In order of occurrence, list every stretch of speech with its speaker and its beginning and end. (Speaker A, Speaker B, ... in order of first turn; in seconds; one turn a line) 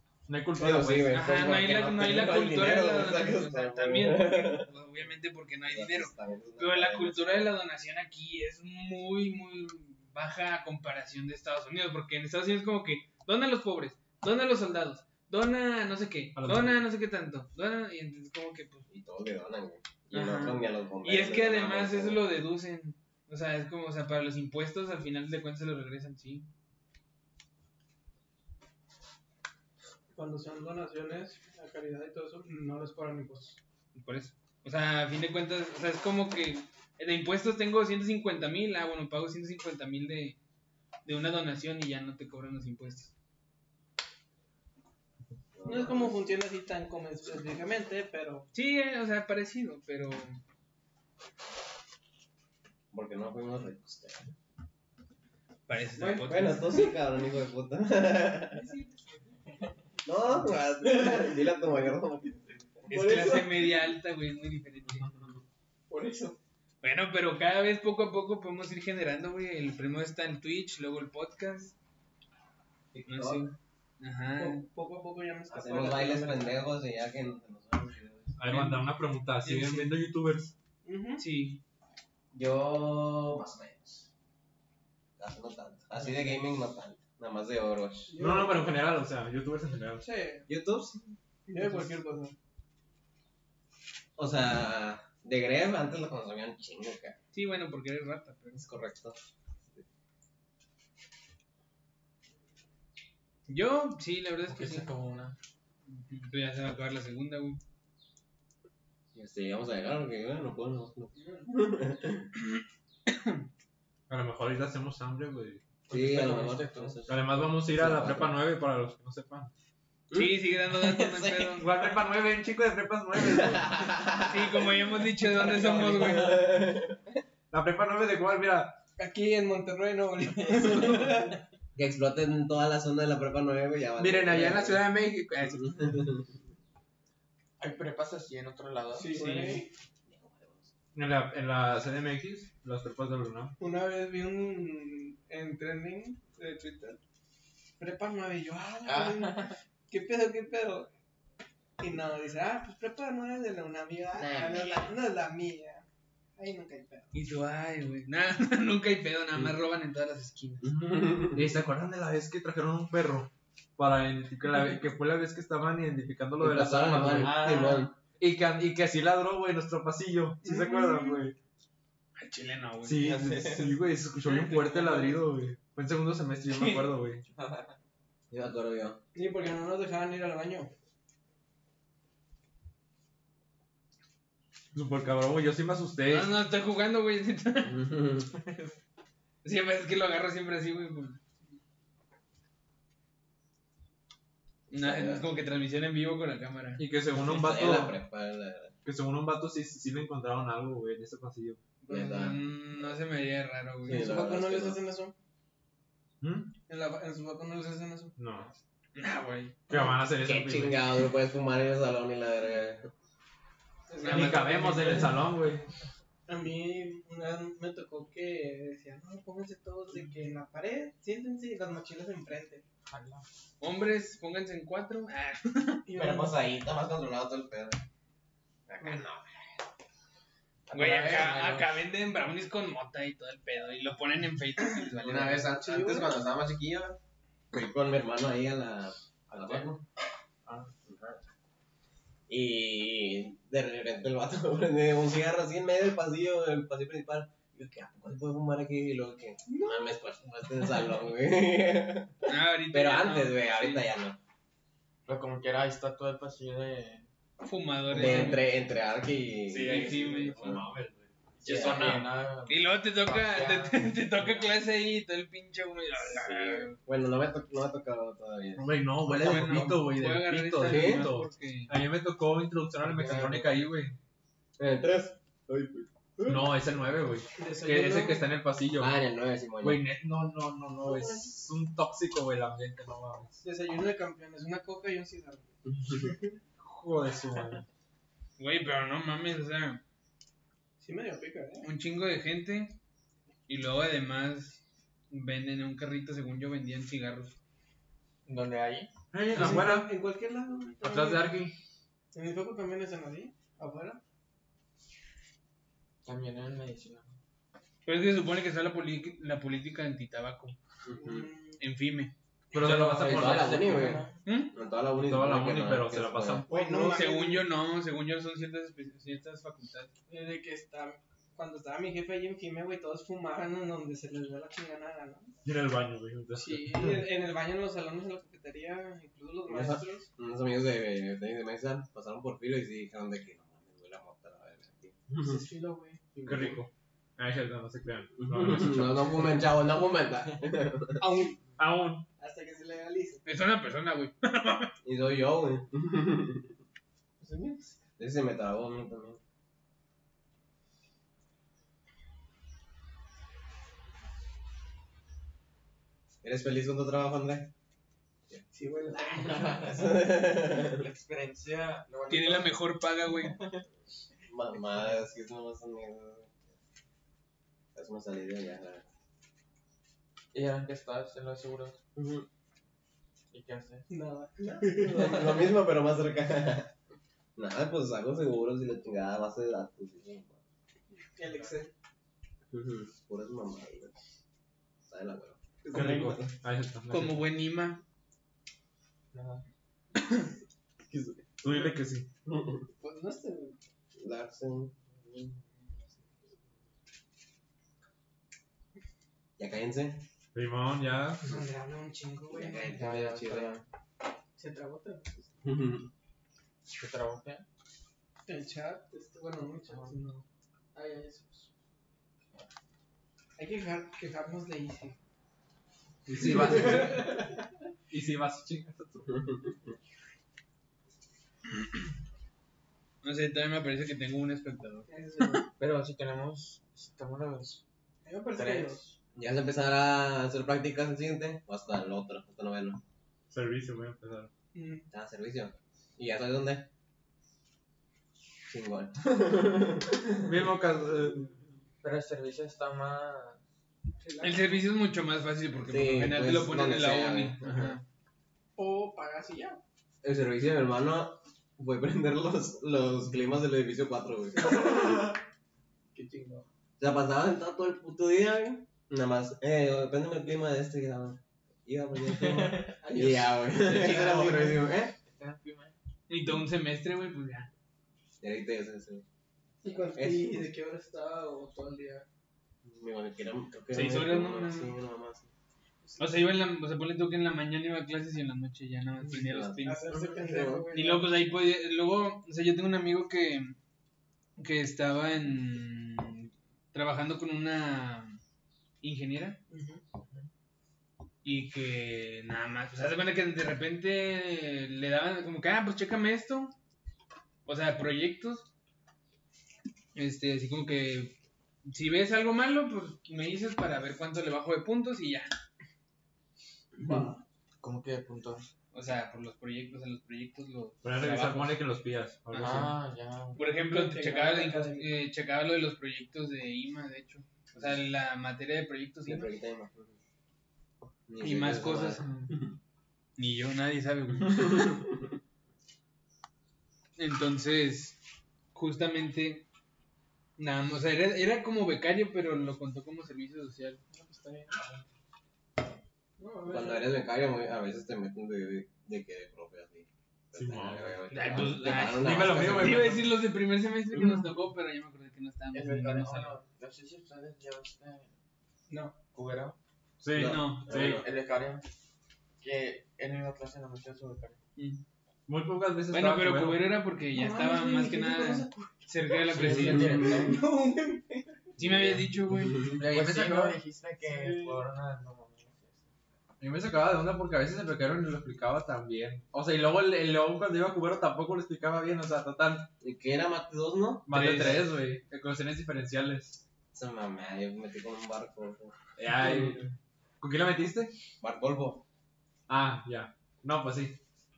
Speaker A: 0.3-1.2
Speaker B: 0.6-4.7
Speaker C: 1.1-18.9
Speaker B: 5.7-7.5
Speaker A: 16.4-16.9
Speaker B: 18.9-22.3
Speaker C: 20.1-26.5
Speaker D: 30.1-33.6
Speaker C: 33.9-40.4
Speaker C: 41.0-43.1
Speaker B: 45.5-46.2
Speaker D: 45.6-48.5
Speaker C: 48.5-50.4
Speaker B: 52.9-54.3
Speaker C: 55.7-56.9
Speaker B: 56.0-58.7
Speaker C: 58.7-59.2
Speaker B: 60.0-63.5
Speaker C: 62.9-65.1
Speaker D: 65.9-66.4
Speaker C: 66.8-71.8
Speaker B: 72.9-73.6
Speaker C: 73.1-74.6
Speaker D: 74.4-76.6
Speaker B: 75.5-78.4
Speaker A: 78.4-80.5
Speaker C: 78.5-78.8
Speaker C: 79.4-80.0
Speaker D: 80.8-81.2
Speaker C: 81.2-81.6
Speaker B: 82.3-84.1
Speaker B: 85.2-88.1
Speaker D: 88.1-88.8
Speaker A: 88.2-90.0
Speaker D: 90.0-90.5
Speaker B: 90.5-91.1
Speaker D: 91.5-92.4
Speaker B: 94.2-97.2
Speaker C: 97.3-98.7
Speaker B: 98.5-99.2
Speaker C: 103.5-104.9
Speaker E: 104.5-105.3
Speaker C: 105.9-107.6
Speaker B: 109.1-112.3
Speaker C: 113.1-113.5
Speaker A: 114.1-115.8
Speaker B: 115.9-118.4
Speaker E: 115.9-117.0
Speaker A: 117.1-119.5
Speaker B: 120.1-121.9
Speaker C: 120.1-121.7
Speaker A: 121.6-124.0
Speaker B: 123.2-124.8
Speaker C: 124.2-126.4
Speaker D: 125.4-126.3
Speaker B: 125.4-127.1
Speaker A: 127.5-128.8
Speaker D: 129.0-131.4
Speaker B: 131.8-134.8
Speaker A: 134.0-135.2
Speaker B: 135.6-136.3
Speaker E: 137.6-139.6
Speaker D: 138.9-139.7
Speaker B: 140.1-140.7
Speaker A: 140.9-143.6
Speaker D: 143.6-147.0
Speaker D: 147.8-150.9
Speaker E: 148.9-149.6
Speaker D: 151.8-155.9
Speaker E: 154.2-154.9
Speaker D: 156.4-157.1
Speaker C: 157.1-160.7
Speaker B: 160.6-161.5
Speaker A: 161.3-167.5
Speaker B: 166.4-167.9
Speaker E: 166.9-167.9
Speaker A: 168.2-171.4
Speaker D: 170.4-171.2
Speaker C: 172.2-173.1
Speaker A: 172.8-177.2
Speaker E: 173.0-173.8
Speaker D: 174.3-175.2
Speaker E: 177.3-177.7
Speaker B: 178.3-179.0
Speaker D: 179.2-180.7
Speaker A: 184.7-186.3
Speaker C: 186.1-187.8
Speaker B: 187.7-188.3
Speaker C: 189.4-191.2
Speaker B: 194.7-195.3
Speaker C: 194.7-196.8
Speaker A: 196.8-198.0
Speaker B: 197.2-198.8
Speaker A: 198.8-201.6
Speaker C: 201.8-204.1
Speaker B: 201.9-202.5
Speaker B: 203.8-204.8
Speaker D: 203.9-205.1
Speaker A: 206.2-206.5
Speaker D: 206.7-208.1
Speaker A: 208.2-208.5
Speaker C: 209.0-209.6
Speaker A: 209.7-210.8
Speaker B: 209.8-212.9
Speaker D: 213.9-215.2
Speaker C: 214.0-214.5
Speaker A: 214.0-215.7
Speaker D: 216.3-222.6
Speaker E: 222.9-223.3
Speaker C: 223.6-225.9
Speaker D: 225.9-226.4
Speaker B: 225.9-227.8
Speaker B: 228.7-229.5
Speaker E: 230.7-231.7
Speaker C: 230.7-235.5
Speaker B: 235.0-237.0
Speaker E: 235.2-236.3
Speaker D: 235.5-236.2
Speaker B: 237.5-239.8
Speaker E: 239.3-239.7
Speaker E: 240.5-240.7
Speaker B: 240.9-241.2
Speaker B: 242.3-254.2
Speaker D: 249.5-250.0
Speaker C: 252.3-253.9
Speaker E: 255.1-257.1
Speaker C: 257.4-258.5
Speaker B: 257.9-260.6
Speaker A: 259.5-262.2
Speaker C: 259.6-260.6
Speaker E: 261.4-264.5
Speaker B: 261.5-262.0
Speaker C: 262.5-266.8
Speaker B: 266.5-269.8
Speaker A: 268.6-274.0
Speaker C: 269.1-271.7
Speaker B: 270.6-271.1
Speaker E: 272.8-273.6
Speaker B: 274.6-276.5
Speaker A: 276.3-278.9
Speaker D: 277.4-278.3
Speaker B: 278.8-279.8
Speaker A: 279.6-283.4
Speaker B: 280.8-281.3
Speaker D: 283.4-286.3
Speaker B: 285.6-286.1
Speaker A: 286.6-287.6
Speaker C: 288.4-289.8
Speaker D: 290.8-291.7
Speaker C: 291.6-292.8
Speaker C: 293.5-297.4
Speaker E: 298.3-298.9
Speaker A: 299.1-299.9
Speaker D: 299.3-301.4
Speaker A: 300.8-301.6
Speaker D: 302.1-304.0
Speaker E: 306.1-307.1
Speaker C: 307.9-310.6
Speaker B: 310.9-311.3
Speaker D: 310.9-311.6
Speaker C: 311.6-312.1
Speaker A: 312.5-313.9
Speaker E: 312.6-314.2
Speaker B: 312.6-316.5
Speaker C: 314.2-314.5
Speaker A: 315.0-316.9
Speaker D: 316.5-317.5
Speaker C: 316.9-319.9
Speaker D: 320.1-325.3
Speaker A: 325.4-327.1
Speaker D: 326.4-330.1
Speaker B: 329.5-335.4
Speaker D: 335.1-336.2
Speaker A: 336.2-339.4
Speaker B: 338.2-341.1
Speaker D: 341.0-341.4
Speaker A: 341.6-342.1
Speaker D: 342.2-343.2
Speaker C: 343.2-344.7
Speaker B: 344.8-346.6
Speaker D: 347.2-347.7
Speaker B: 348.0-349.2
Speaker B: 356.2-357.5
Speaker D: 358.5-359.8
Speaker B: 359.4-360.9
Speaker E: 360.5-362.6
Speaker C: 362.1-363.4
Speaker E: 363.2-363.6
Speaker B: 364.3-366.4
Speaker B: 367.8-368.9
Speaker E: 370.3-371.8
Speaker B: 372.0-372.3
Speaker E: 373.3-373.9
Speaker D: 373.9-375.2
Speaker B: 374.4-376.7
Speaker E: 375.0-375.4
Speaker B: 377.4-380.4
Speaker D: 381.1-381.7
Speaker B: 382.5-384.0
Speaker B: 384.9-386.3
Speaker A: 385.7-387.3
Speaker C: 386.9-387.8
Speaker E: 389.1-389.4
Speaker C: 390.0-390.3
Speaker B: 390.9-391.7
Speaker A: 391.4-392.1
Speaker B: 392.2-392.7
Speaker D: 392.8-393.6
Speaker B: 394.0-395.4
Speaker B: 399.4-400.1
Speaker A: 400.3-401.3
Speaker D: 401.2-402.8
Speaker B: 402.3-403.6
Speaker E: 402.6-403.6
Speaker D: 404.4-405.1
Speaker B: 405.4-405.9
Speaker E: 406.7-407.4
Speaker D: 408.3-411.5
Speaker D: 413.4-415.0
Speaker A: 416.1-417.3
Speaker D: 416.2-417.3
Speaker A: 417.9-419.3
Speaker B: 419.1-419.5
Speaker C: 423.0-424.9
Speaker D: 424.9-425.5
Speaker E: 425.6-427.6
Speaker D: 428.1-428.8
Speaker E: 428.3-428.9
Speaker B: 429.1-432.8
Speaker A: 433.3-434.3
Speaker D: 434.5-434.9
Speaker B: 434.9-436.7
Speaker B: 438.5-440.4
Speaker A: 440.2-441.3
Speaker E: 441.8-443.4
Speaker D: 444.0-444.6
Speaker C: 444.2-447.8
Speaker B: 445.7-447.8
Speaker D: 448.6-449.6
Speaker B: 450.0-455.1
Speaker D: 454.3-455.2
Speaker D: 455.9-456.5
Speaker B: 456.8-464.9
Speaker E: 462.1-465.7
Speaker D: 462.8-464.4
Speaker C: 466.1-467.5
Speaker B: 468.2-469.1
Speaker D: 469.6-472.1
Speaker B: 469.9-470.5
Speaker B: 472.6-475.3
Speaker C: 473.7-474.8
Speaker C: 476.0-479.9
Speaker B: 479.1-480.7
Speaker D: 479.6-481.1
Speaker E: 480.0-480.5
Speaker C: 480.7-483.6
Speaker C: 484.4-488.2
Speaker C: 488.8-489.4
Speaker D: 489.5-489.8
Speaker C: 491.2-496.6
Speaker C: 497.5-498.5
Speaker C: 499.9-505.3
Speaker E: 506.8-507.1
Speaker E: 507.6-508.5
Speaker C: 508.7-511.6
Speaker A: 510.8-512.8
Speaker C: 512.3-512.6
Speaker E: 512.4-513.4
Speaker C: 513.4-519.3
Speaker D: 513.4-515.0
Speaker B: 519.1-520.0
Speaker B: 521.1-522.6
Speaker C: 521.2-522.3
Speaker C: 523.2-524.4
Speaker B: 524.3-525.1
Speaker C: 527.0-528.0
Speaker C: 528.5-529.5
Speaker C: 530.4-533.8
Speaker D: 533.9-534.7
Speaker D: 536.2-537.0
Speaker B: 536.5-543.0
Speaker A: 540.3-543.1
Speaker C: 541.1-546.4
Speaker E: 545.5-548.1
Speaker D: 548.7-549.0
Speaker E: 549.1-549.6
Speaker A: 550.0-551.0
Speaker B: 550.1-551.1
Speaker C: 550.2-550.7
Speaker E: 550.8-551.7
Speaker E: 552.4-554.4
Speaker C: 554.6-554.8
Speaker A: 555.3-556.7
Speaker C: 555.9-560.2
Speaker D: 557.1-559.2
Speaker A: 559.3-560.2
Speaker B: 559.4-560.4
Speaker E: 559.4-560.4
Speaker D: 560.0-561.3
Speaker B: 561.6-562.8
Speaker C: 561.6-562.8
Speaker E: 562.8-565.8
Speaker A: 562.8-563.6
Speaker D: 564.0-564.6
Speaker A: 566.4-572.7
Speaker B: 572.8-574.7
Speaker A: 574.1-576.4
Speaker C: 574.1-574.5
Speaker B: 576.7-578.8
Speaker A: 579.0-579.7
Speaker A: 580.2-581.0
Speaker B: 581.2-581.8
Speaker A: 582.5-584.0